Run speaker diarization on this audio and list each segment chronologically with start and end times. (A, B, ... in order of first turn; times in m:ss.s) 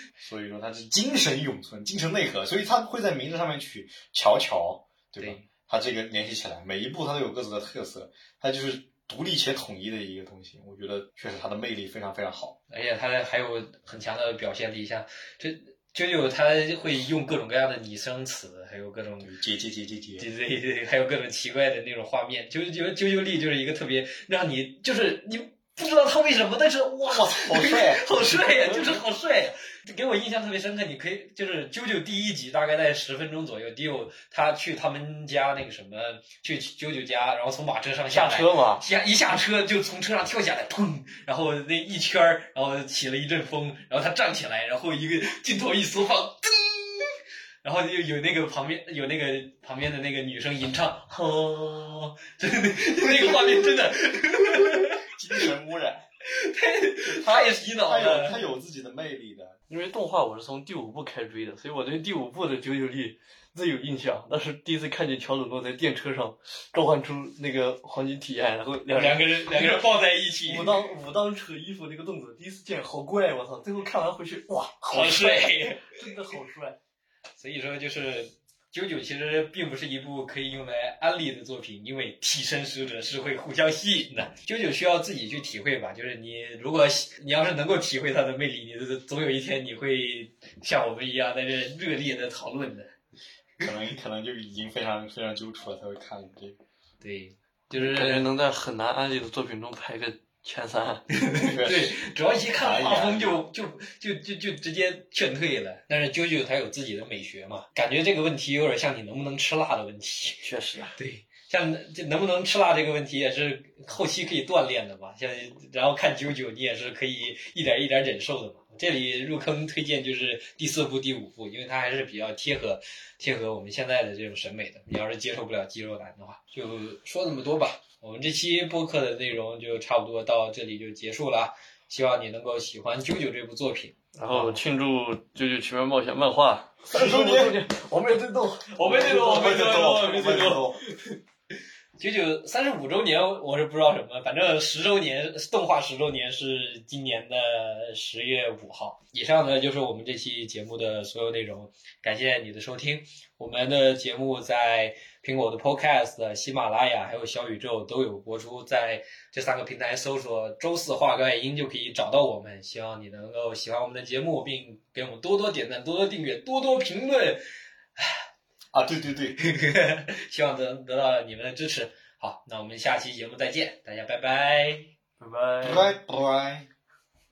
0:00.2-0:12.6 A
0:05.2-0:05.5 B
0:12.7-0:19.3 B
0:19.2-0:20.3 A
0:20.2-0:55.5 B
0:27.1-0:28.2 A
0:28.6-0:28.9 C
0:38.1-0:38.8 C
0:54.6-0:56.1 A
0:56.2-0:58.4 B
0:57.0-0:59.6 A
0:59.7-1:09.9 C
1:08.9-1:10.9 B
1:10.4-1:16.8 C
1:14.9-1:15.9 B
1:17.4-1:32.9 B
1:33.6-1:36.6 A
1:37.0-1:38.3 B
1:37.7-1:41.0 C
1:41.1-1:50.4 B
1:41.5-1:42.0 A
1:42.6-1:43.4 A
1:50.4-1:51.0 C
1:51.0-2:14.6 B
2:14.2-2:20.3 C
2:16.9-2:17.6 A
2:18.7-2:21.2 B
2:18.9-2:20.8 A
2:22.0-2:47.4 B
2:48.7-2:49.4 A
2:49.4-2:54.9 B
2:55.2-2:55.9 C
2:55.6-2:56.7 A